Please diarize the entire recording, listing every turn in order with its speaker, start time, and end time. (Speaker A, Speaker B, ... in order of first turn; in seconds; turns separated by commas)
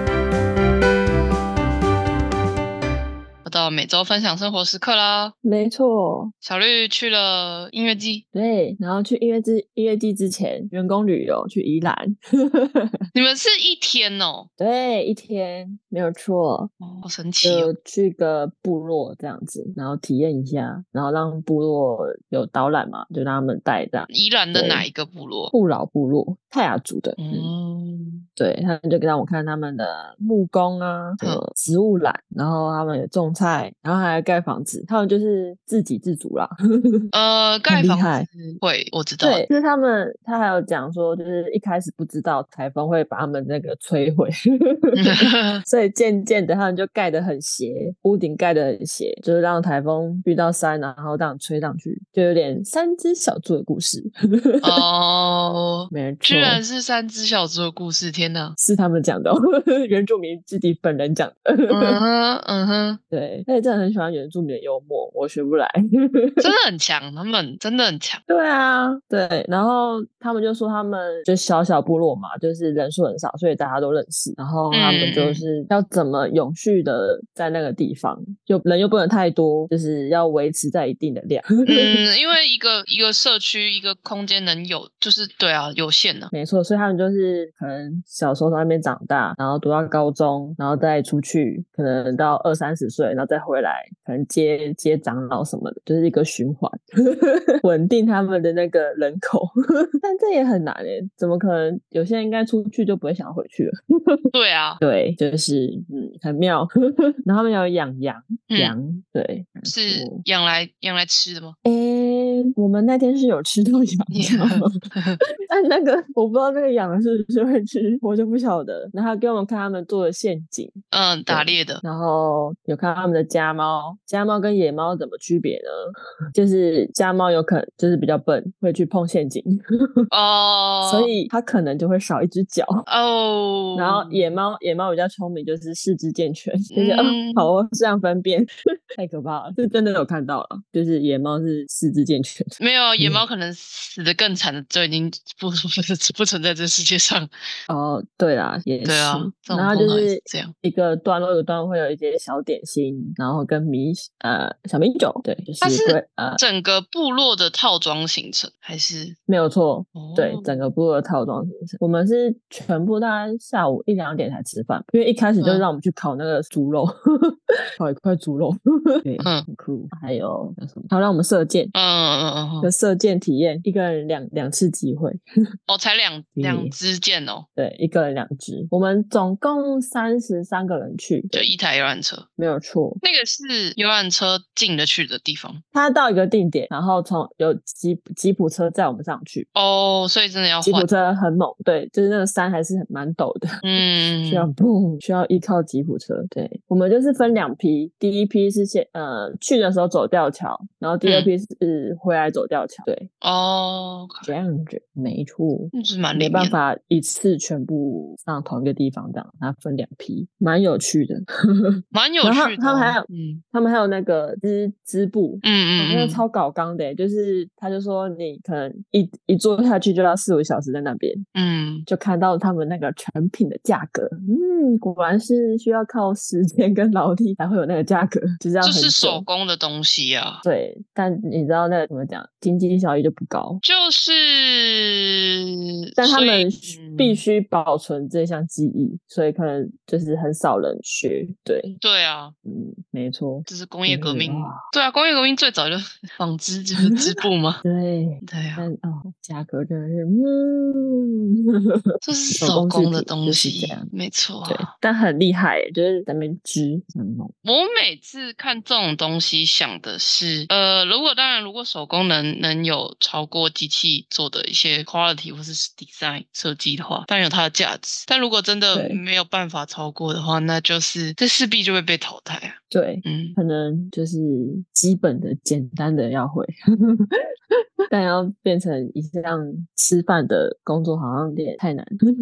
Speaker A: 3.4-5.3, Speaker B: 5.4-6.3, Speaker A: 6.4-8.2, Speaker B: 8.3-13.0, Speaker A: 13.1-14.5, Speaker B: 14.6-16.7, Speaker A: 16.8-17.7, Speaker B: 17.4-24.9, Speaker A: 24.1-25.5, Speaker B: 25.5-27.5, Speaker A: 27.2-28.2, Speaker B: 28.4-37.1, Speaker A: 37.1-39.5, Speaker B: 37.7-38.3, Speaker B: 39.2-54.8, Speaker A: 44.9-45.6, Speaker A: 54.6-58.5, Speaker B: 55.9-56.6, Speaker B: 58.6-62.0, Speaker A: 61.7-63.0, Speaker B: 63.1-66.5, Speaker A: 66.4-68.2, Speaker B: 68.3-82.0, Speaker A: 74.7-75.5, Speaker A: 81.6-86.3, Speaker B: 86.3-104.2, Speaker A: 104.3-104.8, Speaker B: 104.8-106.7, Speaker B: 107.2-110.2, Speaker A: 109.6-111.6, Speaker B: 111.6-114.8, Speaker A: 114.1-115.2, Speaker B: 115.4-125.8, Speaker A: 120.9-121.8, Speaker B: 126.3-130.1, Speaker A: 130.1-131.1, Speaker B: 130.8-132.9, Speaker A: 132.9-134.4, Speaker B: 133.7-143.2, Speaker A: 136.7-137.5, Speaker A: 142.6-147.3, Speaker B: 147.7-156.4, Speaker A: 148.8-150.5, Speaker A: 155.6-159.2, Speaker B: 159.3-171.7, Speaker A: 159.9-160.7, Speaker A: 165.4-165.7, Speaker A: 169.2-169.4, Speaker A: 171.7-172.7, Speaker B: 172.6-175.2, Speaker A: 175.7-177.5, Speaker B: 176.4-176.8, Speaker B: 177.6-181.5, Speaker A: 181.3-182.3, Speaker B: 182.4-183.0, Speaker A: 183.0-185.6, Speaker B: 185.7-189.5, Speaker A: 189.5-190.9, Speaker B: 190.6-203.1, Speaker A: 193.6-194.5, Speaker A: 201.0-201.3, Speaker A: 203.2-204.3, Speaker B: 204.2-221.2, Speaker A: 205.7-206.6, Speaker A: 211.9-213.4, Speaker A: 215.4-216.2, Speaker A: 221.3-221.9, Speaker B: 221.9-229.2, Speaker A: 228.6-230.4, Speaker B: 230.4-233.6, Speaker A: 233.6-235.4, Speaker A: 235.9-237.2, Speaker B: 236.0-241.8, Speaker A: 241.8-242.3, Speaker B: 242.4-244.6, Speaker A: 243.4-247.6, Speaker B: 246.8-247.1, Speaker B: 247.6-251.9, Speaker A: 248.2-248.7, Speaker A: 252.0-254.7, Speaker B: 252.4-253.9, Speaker B: 254.4-257.3, Speaker A: 257.4-273.4, Speaker B: 268.7-269.0, Speaker B: 272.7-277.1, Speaker B: 277.9-282.0